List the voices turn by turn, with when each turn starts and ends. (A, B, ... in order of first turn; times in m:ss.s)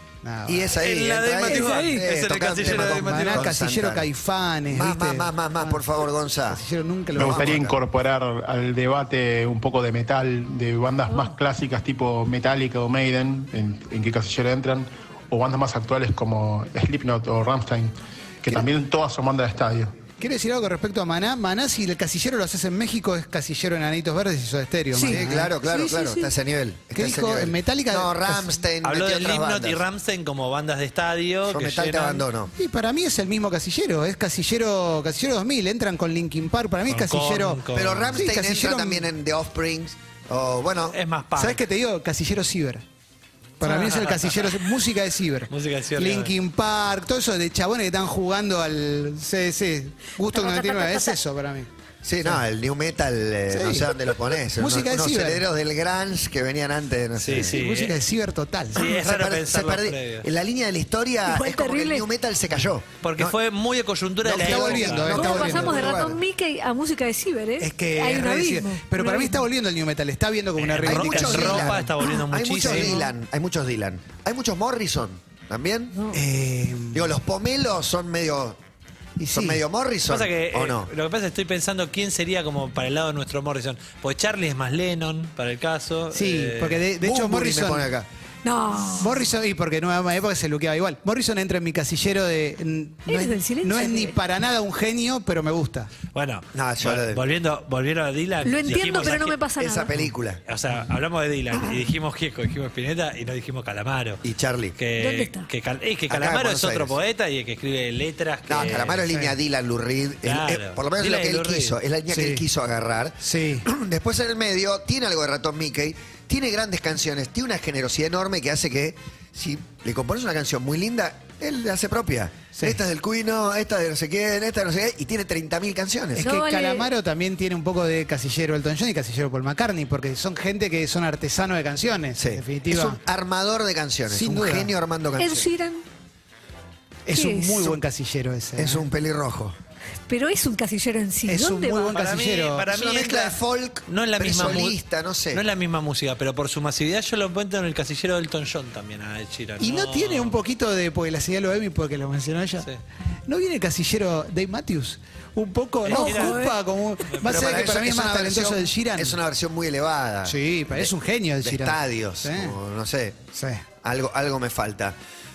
0:00.2-0:00.7 A
0:00.5-0:04.1 B
0:00.7-0:03.5 C
0:01.5-0:02.0 D
0:02.6-0:05.8 A
0:04.7-0:06.6 B
0:06.5-0:07.7 A
0:07.2-0:07.8 B
0:07.2-0:20.0 E
0:11.1-0:11.4 D
0:20.2-0:25.5 A
0:24.9-0:26.3 D
0:25.0-0:29.8 B
0:26.9-0:28.5 A
0:28.8-0:32.2 C
0:31.5-0:32.5 B
0:32.6-0:37.6 A
0:36.9-0:38.2 C
0:37.7-0:41.0 B
0:38.1-0:39.1 A
0:40.9-0:41.6 C
0:41.4-0:42.8 A
0:43.6-0:44.7 C
0:43.6-0:51.7 A
0:45.5-0:46.3 C
0:50.3-0:51.2 D
0:52.0-0:57.6 B
0:53.5-0:55.4 A
0:57.2-0:58.0 C
0:57.4-0:58.8 A
0:58.8-1:00.3 C
0:58.8-1:03.4 B
1:01.2-1:02.1 D
1:03.0-1:05.4 C
1:04.2-1:06.2 B
1:04.3-1:05.9 A
1:05.1-1:09.4 D
1:07.6-1:11.9 A
1:10.6-1:13.1 C
1:10.8-1:16.0 B
1:16.1-1:17.2 A
1:16.9-1:18.6 B
1:19.2-1:19.6 A
1:19.3-1:20.9 B
1:20.1-1:26.8 C
1:26.1-1:27.9 A
1:27.0-1:28.1 B
1:28.4-1:29.2 D
1:29.0-1:35.9 A
1:33.1-1:34.2 D
1:36.1-1:39.4 C
1:36.5-1:37.2 B
1:38.4-1:39.9 D
1:39.6-1:40.4 B
1:40.5-1:44.2 C
1:44.2-1:44.8 B
1:44.8-1:49.3 C
1:45.0-1:45.5 D
1:46.1-1:47.0 B
1:48.5-2:06.2 B
1:50.2-1:51.8 C
1:52.1-1:52.4 A
1:53.2-1:53.7 A
2:02.6-2:02.8 A
2:06.2-2:13.0 A
2:06.2-2:06.9 D
2:12.2-2:15.5 B
2:14.1-2:14.7 A
2:15.2-2:15.8 D
2:17.1-2:18.8 A
2:17.1-2:17.8 D
2:18.6-2:19.6 B
2:20.1-2:21.9 D
2:21.3-2:22.7 A
2:21.9-2:24.8 C
2:22.7-2:25.4 B
2:25.3-2:30.4 C
2:29.6-2:32.7 A
2:33.3-2:39.2 A
2:35.8-2:36.5 C
2:35.9-2:36.6 D
2:37.1-2:37.6 C
2:37.2-2:40.9 B
2:40.2-2:42.5 A
2:41.4-2:43.2 B
2:43.3-2:43.6 A
2:43.8-2:45.0 B